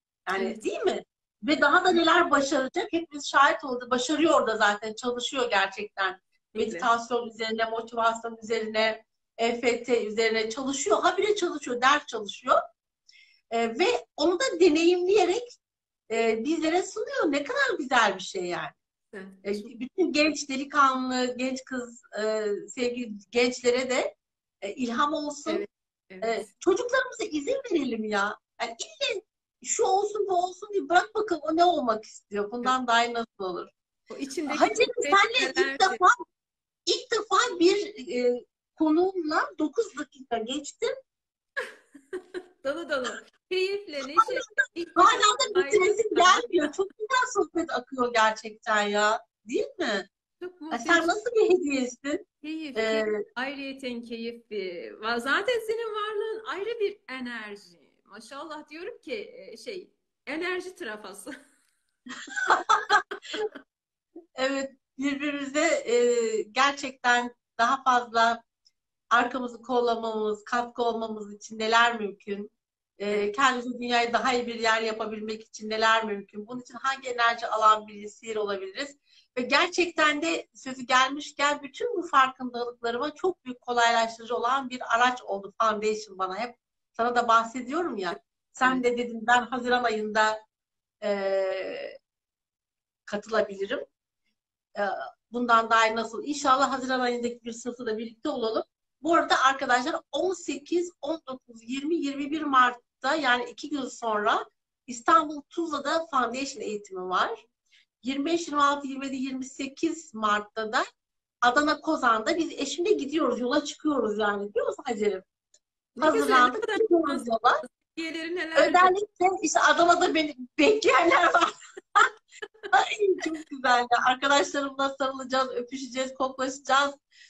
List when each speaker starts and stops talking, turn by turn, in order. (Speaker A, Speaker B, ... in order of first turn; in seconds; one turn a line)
Speaker A: 0.3-12.6
Speaker B: 0.4-0.6
Speaker B: 6.5-6.9
Speaker A: 13.5-15.5
Speaker A: 16.1-18.8
Speaker B: 19.1-19.7
Speaker A: 19.4-25.6
Speaker B: 25.4-26.5
Speaker A: 26.2-33.7
Speaker B: 34.1-36.0
Speaker A: 34.5-36.1
Speaker A: 36.9-40.9
Speaker B: 42.1-46.5
Speaker A: 44.1-50.1
Speaker B: 50.4-51.1
Speaker A: 50.7-52.2
Speaker B: 52.4-61.3
Speaker A: 52.8-53.1
Speaker A: 62.3-63.0
Speaker A: 64.4-68.4
Speaker A: 69.1-90.4
Speaker A: 91.0-92.0
Speaker A: 93.1-93.8
Speaker A: 94.8-107.3
Speaker A: 108.0-110.8
Speaker A: 111.4-115.2
Speaker B: 116.0-118.9
Speaker A: 116.0-117.6
Speaker A: 118.6-122.1
Speaker A: 122.7-127.0